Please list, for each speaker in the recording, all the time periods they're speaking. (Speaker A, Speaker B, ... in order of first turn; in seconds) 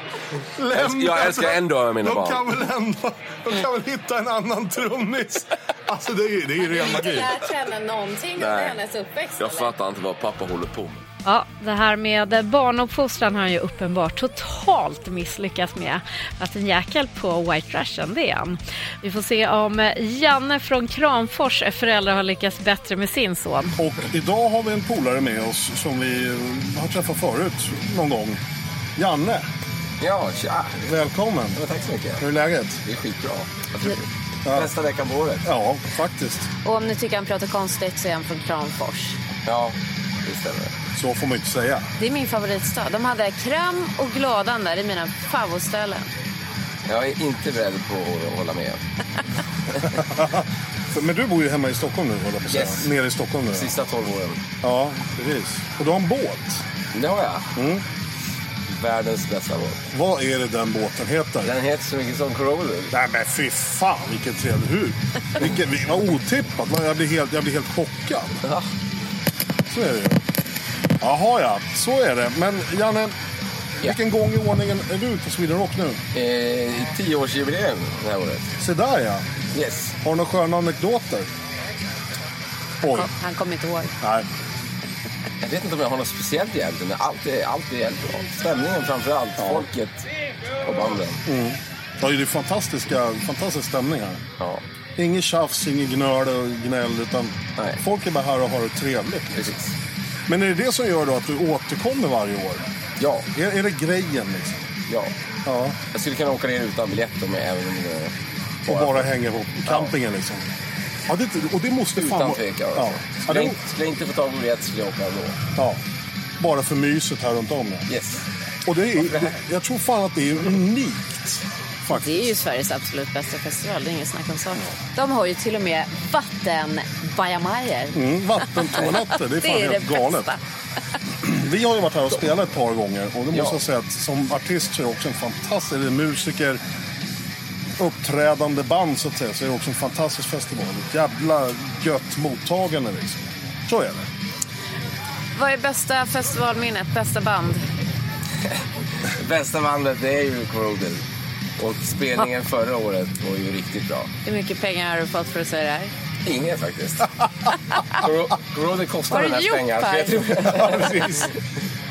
Speaker A: 0.6-7.3, 23.8-28.4, 29.0-29.5, 30.9-31.6, 32.2-32.8, 34.5-34.7, 35.4-36.5, 40.9-41.9, 50.0-53.7, 54.6-56.6, 57.5-57.8, 59.9-61.5, 62.9-68.4, 69.7-70.2, 71.0-73.1, 73.8-76.0, 78.6-79.2, 80.0-81.3, 82.8-83.1, 84.0-84.3, 89.4-89.7, 91.2-94.2, 95.0-99.5, 100.3-102.6, 103.3-104.7, 105.5-105.8, 108.7-110.4, 111.1-113.5, 116.4-117.8, 118.7-122.3, 127.9-130.3, 131.2-136.6, 137.8-144.1, 160.5-161.2
Speaker B: 0.7-2.4, 8.4-8.8, 9.4-11.0
Speaker C: 6.7-9.7, 36.6-39.2, 42.0-46.1, 82.9-83.9, 121.9-128.0, 129.4-130.4, 145.3-147.6, 154.2-155.9, 159.1-160.7
Speaker D: 11.2-23.7
Speaker E: 30.0-30.8, 31.6-32.2, 32.9-35.5, 39.5-39.7, 40.2-40.7, 46.9-48.8, 52.5-52.8, 53.5-54.4, 56.9-57.4, 58.7-59.8, 61.4-62.9, 76.1-78.5, 79.5-79.9, 85.4-90.0, 90.6-91.2, 99.3-99.7, 103.0-103.3, 105.9-108.1, 108.7-109.1, 112.0-115.4, 117.9-118.2, 133.3-133.6, 149.2-151.0, 151.6-154.1, 156.2-157.1, 158.0-161.2